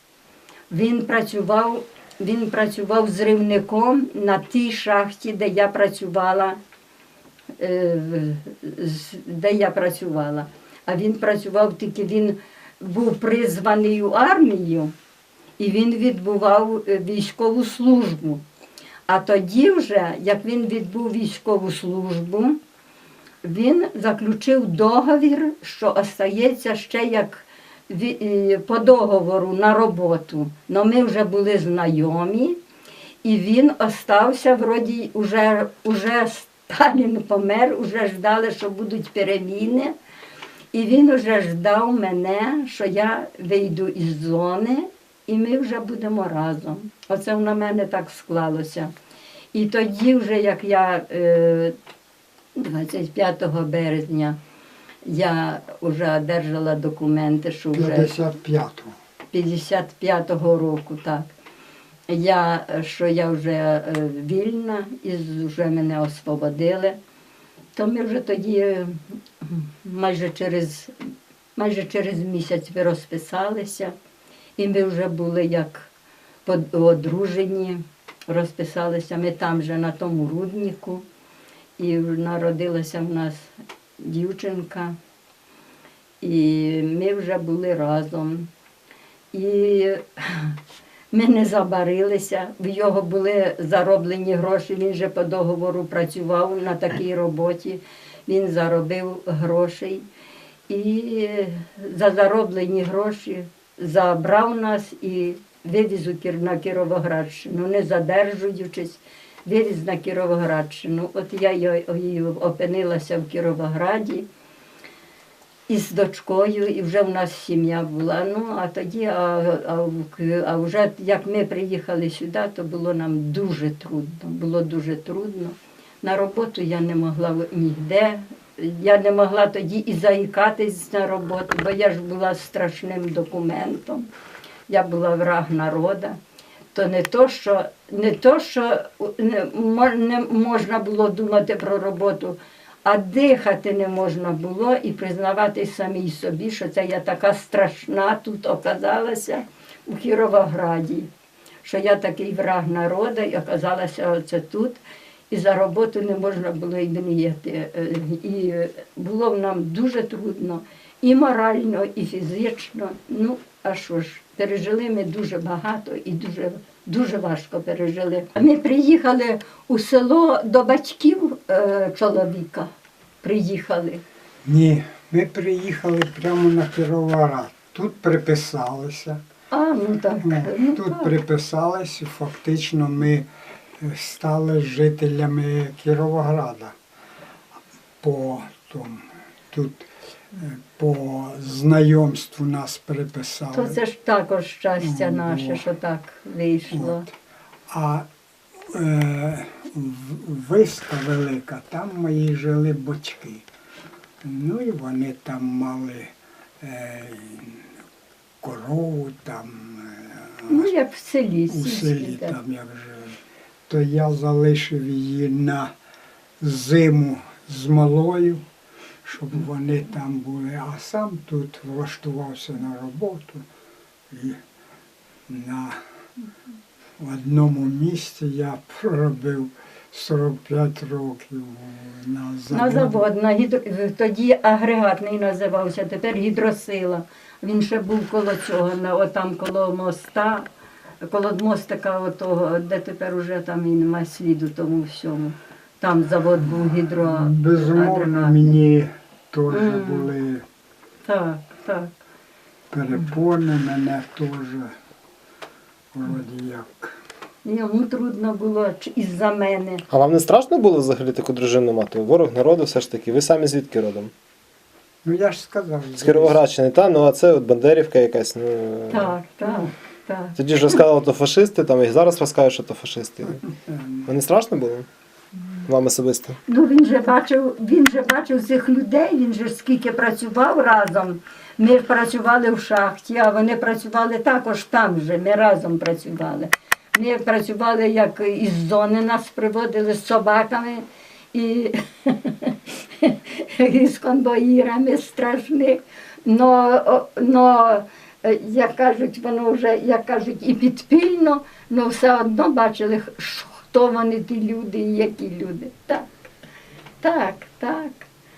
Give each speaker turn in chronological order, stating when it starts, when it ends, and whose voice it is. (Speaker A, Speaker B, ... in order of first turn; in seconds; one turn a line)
Speaker A: 0.7-6.6
Speaker A: 7.6-14.9
Speaker A: 15.6-18.4
Speaker A: 19.1-22.6
Speaker A: 23.4-32.6
Speaker A: 33.2-40.0
Speaker A: 40.7-48.9
Speaker A: 49.5-51.7
Speaker A: 52.5-54.4
Speaker A: 55.0-58.2
Speaker B: 57.7-58.9
Speaker A: 59.3-61.3
Speaker A: 62.1-67.0
Speaker A: 67.8-71.0
Speaker A: 71.6-74.0
Speaker A: 74.6-75.9
Speaker A: 76.5-81.0
Speaker A: 81.8-85.0
Speaker A: 86.2-88.5
Speaker A: 89.3-90.5
Speaker A: 91.1-100.1
Speaker A: 100.7-114.3
Speaker A: 115.7-134.1
Speaker A: 134.7-136.2
Speaker A: 136.7-151.1
Speaker A: 151.6-172.7
Speaker A: 173.2-174.0
Speaker B: 174.4-179.2
Speaker A: 179.5-181.1
Speaker B: 180.2-183.3
Speaker B: 183.8-186.7
Speaker B: 188.0-193.8
Speaker A: 193.5-197.1
Speaker B: 194.8-195.7
Speaker B: 196.7-197.1
Speaker B: 197.7-198.1
Speaker B: 198.7-203.4
Speaker B: 204.2-207.7
Speaker B: 208.4-210.7
Speaker A: 210.5-212.4
Speaker B: 211.5-213.2
Speaker B: 213.7-215.7
Speaker B: 216.4-218.4
Speaker B: 219.1-223.4
Speaker B: 224.1-224.4
Speaker B: 225.3-225.8
Speaker B: 227.0-233.1
Speaker A: 232.5-240.5
Speaker A: 241.0-248.6
Speaker B: 246.6-250.4
Speaker A: 249.5-250.1
Speaker A: 251.0-251.9
Speaker B: 252.7-254.7
Speaker B: 255.9-257.0
Speaker A: 257.4-259.8
Speaker C: 259.9-264.1
Speaker B: 265.0-266.4
Speaker C: 266.0-269.1
Speaker A: 268.9-270.4
Speaker C: 270.4-273.4
Speaker B: 273.7-273.9
Speaker C: 274.1-274.9
Speaker C: 275.7-276.4
Speaker A: 276.5-306.1
Speaker A: 307.0-308.1